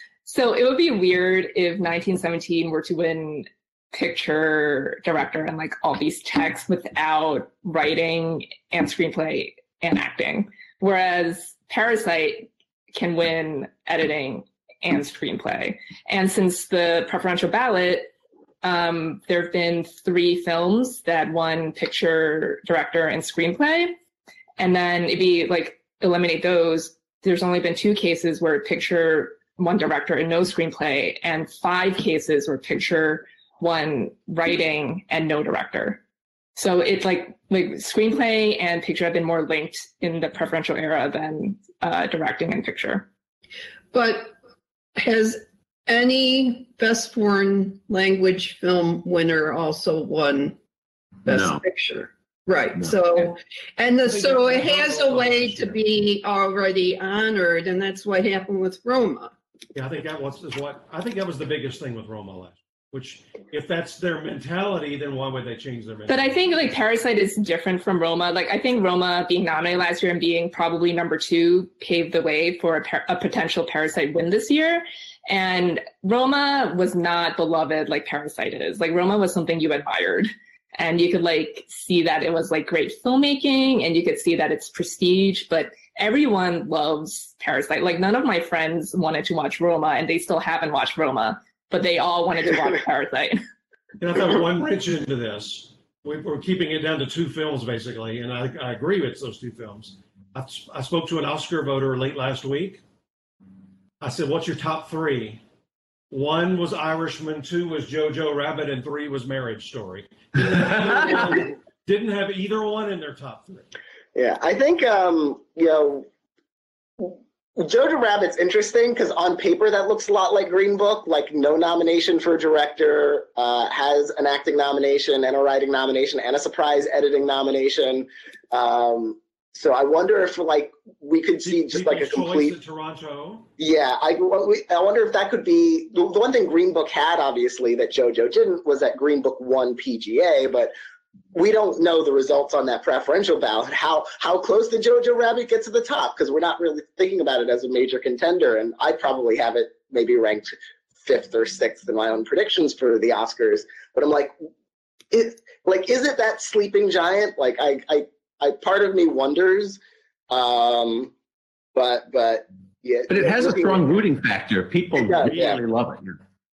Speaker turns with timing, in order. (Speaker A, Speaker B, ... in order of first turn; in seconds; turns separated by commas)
Speaker A: 0.2-18.1, Speaker A: 18.6-23.9, Speaker A: 24.6-36.0, Speaker A: 36.5-43.1, Speaker B: 43.9-44.4, Speaker B: 45.0-50.5, Speaker B: 51.2-59.3, Speaker C: 51.3-51.6, Speaker D: 54.0-55.9, Speaker D: 59.7-66.3, Speaker A: 66.1-93.4, Speaker D: 94.0-102.8, Speaker D: 104.0-105.4, Speaker D: 106.1-113.7, Speaker C: 110.9-111.2, Speaker E: 114.1-116.1, Speaker E: 117.0-132.5, Speaker D: 131.4-133.5, Speaker E: 133.6-140.7, Speaker E: 141.3-150.5, Speaker E: 151.0-154.3, Speaker E: 155.1-159.8, Speaker E: 160.3-161.1, Speaker E: 161.7-164.0, Speaker C: 163.1-166.2, Speaker E: 164.9-165.6